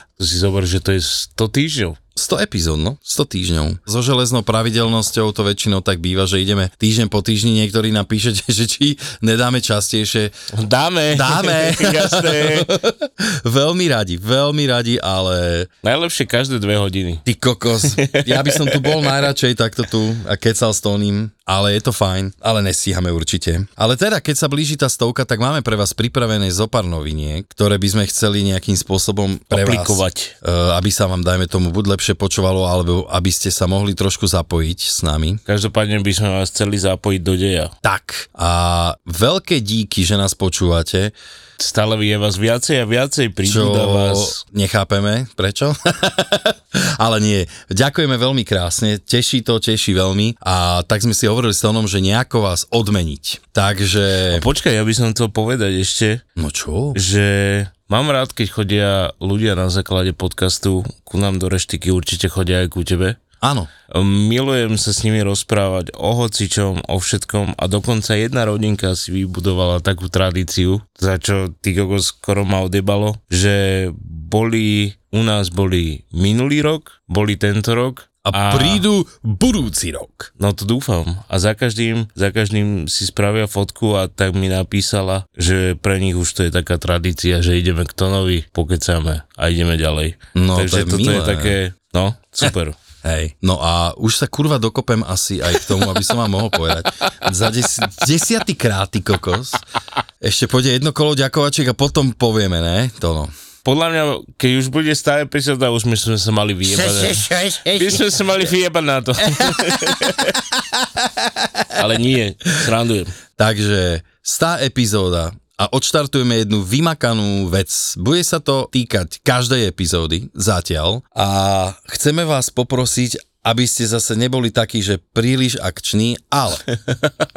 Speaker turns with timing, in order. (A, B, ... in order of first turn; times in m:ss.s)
0:00.2-0:02.0 A
0:02.2-0:10.3 B
0:10.5-0:12.7 A
0:11.1-0:15.7 B
0:15.8-0:17.2 A
0:17.3-0:35.4 B
0:17.9-0:19.3 A
0:29.5-0:30.3 A
0:35.5-0:37.7 A
0:37.8-0:41.1 B
0:41.6-0:44.4 A
0:43.4-0:54.5 B
0:54.3-0:56.2 A
0:56.4-0:57.0 B
0:57.0-1:03.2 A
1:03.4-1:03.7 B
1:03.9-1:18.8 A
1:18.2-1:20.3 B
1:20.4-1:32.8 A
1:30.4-1:31.6 B
1:33.0-1:39.6 B
1:40.2-1:43.3 B
1:43.6-1:50.4 A
1:46.8-1:48.0 B
1:49.4-1:50.0 B
1:51.2-1:51.5 B
1:51.7-1:53.2 A
1:53.4-2:06.6 B